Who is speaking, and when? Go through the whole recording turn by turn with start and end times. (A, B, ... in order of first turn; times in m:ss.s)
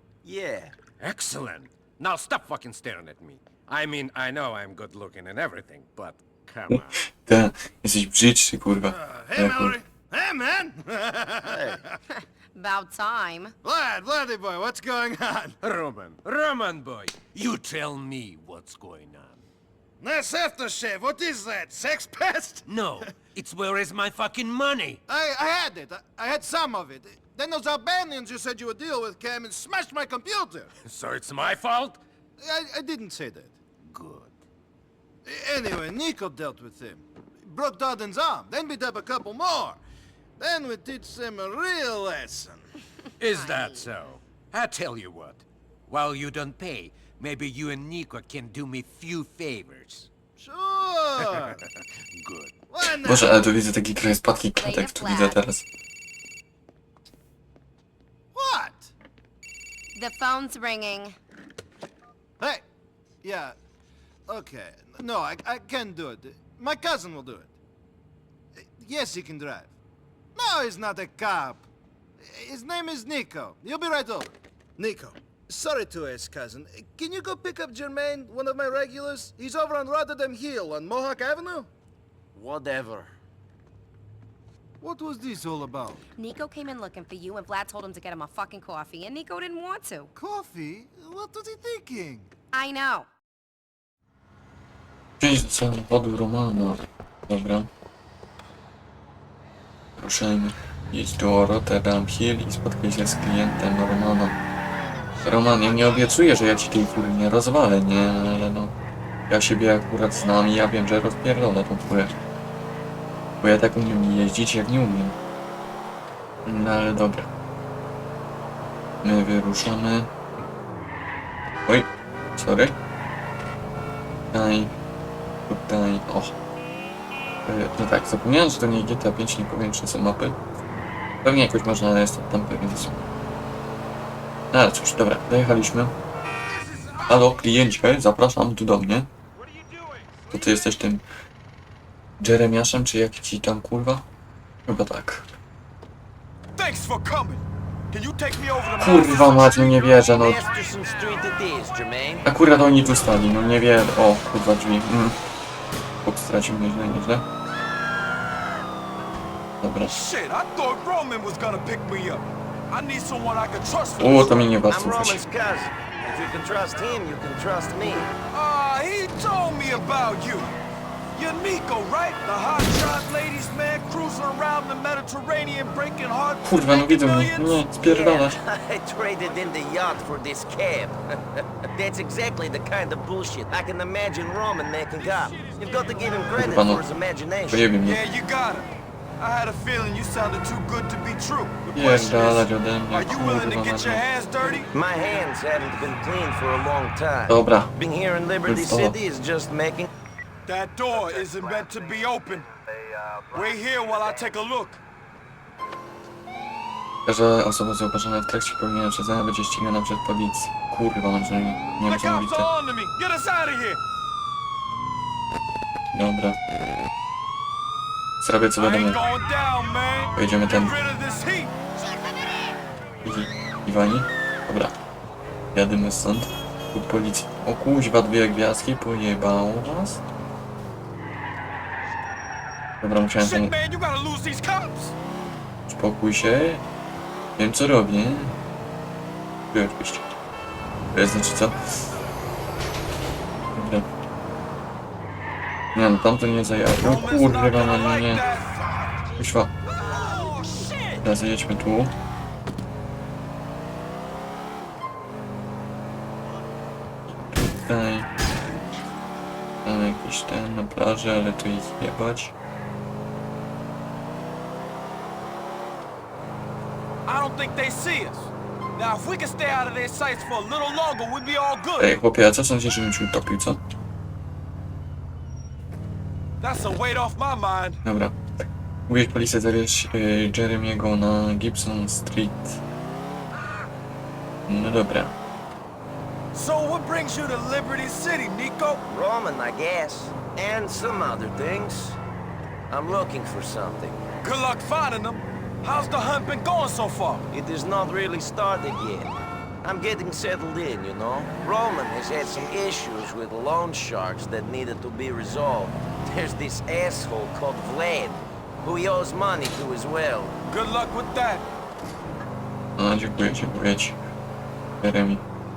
0:00.2-0:00.7 A
0:01.0-0:07.0 B
0:07.2-0:09.8 C
0:08.9-0:12.0 D
0:11.4-0:11.8 A
0:12.5-0:13.5 E
0:13.6-0:15.6 D
0:15.6-0:19.4 B
0:20.0-0:23.1 D
0:22.6-0:25.0 B
0:25.1-0:30.7 D
0:30.8-0:32.0 B
0:32.4-0:33.6 D
0:33.8-0:34.4 B
0:35.2-0:39.8 D
0:40.4-0:42.7 D
0:43.2-0:50.1 B
0:43.3-0:43.9 E
0:50.4-0:51.6 D
0:51.2-0:52.5 B
0:52.7-0:53.5 D
0:53.0-0:55.6 C
0:54.6-0:55.4 E
0:58.3-0:58.9 D
0:59.9-1:01.2 E
1:03.2-1:03.6 D
1:04.3-1:07.5 D
1:08.6-1:09.7 D
1:10.3-1:11.7 D
1:12.2-1:21.7 D
1:22.3-1:23.1 A
1:24.8-1:26.0 D
1:26.2-1:30.1 E
1:30.1-1:32.3 D
1:32.5-1:33.1 E
1:35.2-1:37.7 C
1:40.0-1:44.4 C
1:45.2-1:48.7 C
1:49.3-1:52.1 C
1:53.4-1:55.2 C
1:56.4-1:57.3 C
1:59.0-2:00.1 C
2:01.7-2:02.7 C
2:04.3-2:04.7 C
2:05.5-2:06.3 C
2:07.4-2:10.4 C
2:11.2-2:13.0 C
2:14.5-2:15.9 C
2:16.6-2:17.4 F
2:17.0-2:19.1 C
2:19.4-2:20.3 F
2:20.3-2:21.0 C
2:22.2-2:24.0 C
2:24.6-2:25.3 C
2:26.6-2:30.1 F
2:28.8-2:30.4 C
2:30.0-2:32.3 A
2:32.2-2:35.2 C
2:36.0-2:37.2 C
2:39.6-2:39.9 C
2:39.9-2:44.5 F
2:44.0-2:45.2 C
2:44.7-2:48.1 A
2:48.3-2:50.5 F
2:51.1-2:57.7 F
2:56.4-2:58.4 C
2:57.8-3:01.0 A
3:01.6-3:07.7 A
3:05.0-3:06.4 F
3:06.3-3:06.8 C
3:07.5-3:08.0 C
3:07.8-3:08.6 F
3:09.2-3:14.7 F
3:11.7-3:14.0 C
3:14.6-3:19.9 A
3:17.3-3:17.7 C
3:18.4-3:19.0 C
3:20.4-3:22.5 F
3:23.3-3:24.8 F
3:27.0-3:32.5 C
3:31.9-3:33.8 F
3:35.9-3:36.4 C
3:38.2-3:39.0 C
3:38.6-3:41.5 F
3:40.1-3:40.7 C
3:43.0-3:44.7 C
3:45.5-3:50.0 C
3:52.8-3:53.5 C
3:53.2-3:55.0 F
3:55.7-3:56.6 C
3:57.4-3:58.4 C
3:59.5-4:00.0 C
4:00.9-4:01.7 C
4:03.5-4:03.8 C
4:05.7-4:08.2 C
4:06.7-4:09.0 F
4:09.2-4:09.5 C
4:09.7-4:11.0 F
4:11.0-4:11.9 C
4:17.1-4:18.1 C
4:19.6-4:22.3 C
4:27.0-4:32.0 F
4:31.8-4:33.6 C
4:36.4-4:37.8 F
4:37.8-4:38.2 C
4:38.9-4:42.6 C
4:44.5-4:45.1 C
4:46.3-4:48.8 F
4:48.9-4:52.0 A
4:52.7-4:54.0 A
4:54.2-4:57.2 F
4:57.3-4:59.1 A
4:59.6-5:10.4 A
5:10.4-5:11.4 F
5:12.8-5:14.0 C
5:14.8-5:15.2 C